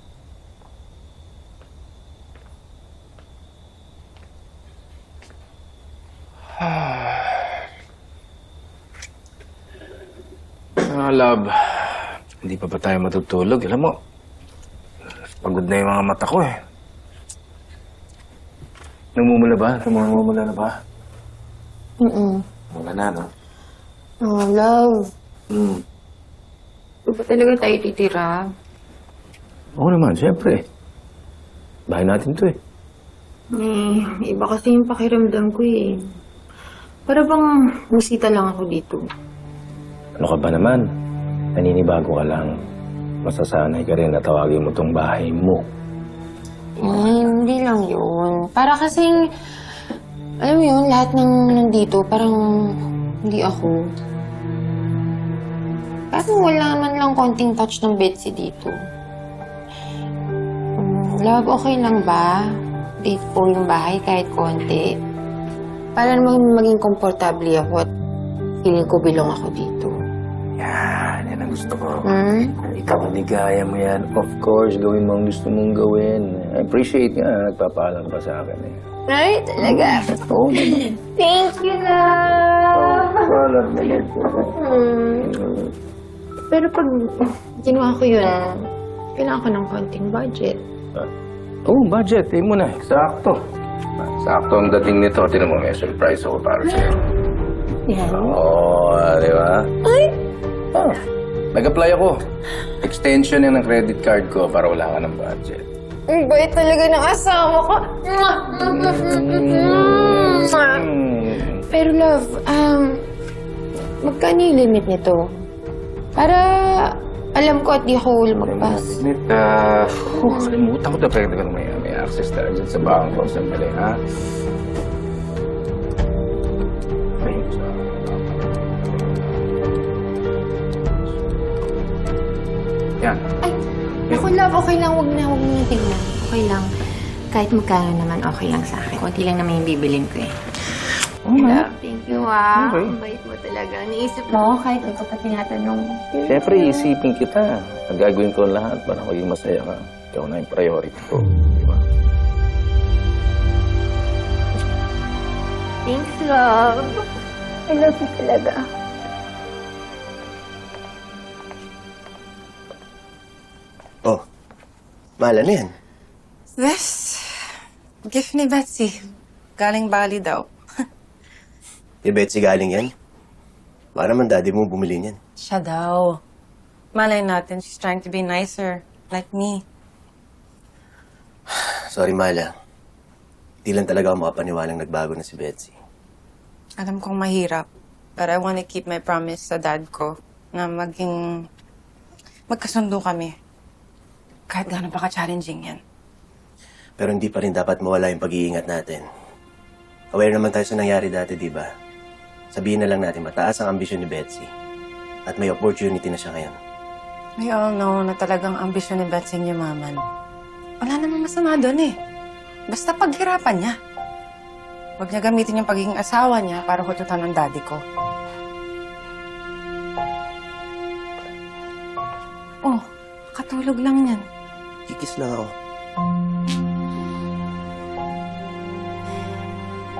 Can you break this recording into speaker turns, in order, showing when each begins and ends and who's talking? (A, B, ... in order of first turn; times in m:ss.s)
0:06.6-0:07.2 A
0:10.8-0:13.9 A
0:15.4-0:16.6 A
0:19.2-0:20.7 A
0:22.0-0:22.4 B
0:22.7-0:23.3 A
0:24.2-0:25.0 B
0:27.1-0:28.4 B
0:29.8-0:30.6 A
0:31.9-0:32.6 A
0:33.5-0:36.0 B
0:37.1-0:39.0 B
0:40.2-0:40.8 A
0:41.5-0:42.5 A
0:43.2-0:45.7 A
0:46.8-0:49.1 B
0:50.4-0:52.4 B
0:53.2-0:53.8 B
0:56.1-0:58.7 B
1:00.8-1:02.4 B
1:03.0-1:04.9 B
1:06.0-1:07.9 B
1:08.6-1:09.9 B
1:10.6-1:12.1 A
1:12.0-1:12.5 B
1:12.6-1:18.8 A
1:19.1-1:20.2 B
1:19.6-1:20.8 A
1:20.8-1:23.3 B
1:22.7-1:24.5 A
1:24.5-1:25.3 B
1:25.2-1:25.6 A
1:26.5-1:28.5 B
1:29.2-1:30.6 B
1:31.6-1:33.4 A
1:34.0-1:36.9 A
1:37.9-1:38.4 B
1:38.1-1:39.7 A
1:39.9-1:40.1 B
1:40.7-1:41.0 A
1:41.5-1:42.1 A
1:42.8-1:45.6 A
1:46.1-1:50.9 B
1:49.2-1:51.6 A
1:51.7-1:53.0 B
1:54.0-1:55.2 B
1:56.2-1:59.0 B
1:58.4-2:04.0 A
2:00.1-2:00.6 B
2:07.2-2:08.5 A
2:10.9-2:11.2 A
2:14.1-2:16.7 B
2:17.3-2:20.3 B
2:21.3-2:26.9 B
2:26.2-2:31.8 A
2:35.9-2:36.8 B
2:37.7-2:38.6 B
2:45.2-2:45.7 C
2:46.6-2:47.2 D
2:48.1-2:48.9 D
2:49.6-2:50.5 D
2:52.0-2:52.9 C
2:54.0-2:55.2 C
2:55.4-2:56.1 D
2:57.0-2:59.6 D
3:01.5-3:02.5 C
3:03.6-3:05.7 C
3:06.8-3:11.3 D
3:12.5-3:13.3 D
3:14.5-3:15.8 D
3:17.0-3:19.0 C
3:20.1-3:21.6 C
3:22.5-3:24.5 C
3:25.3-3:26.6 C
3:27.4-3:30.0 D
3:30.8-3:31.9 D
3:32.7-3:33.7 D
3:35.0-3:37.8 D
3:43.3-3:44.2 D
3:44.9-3:45.5 C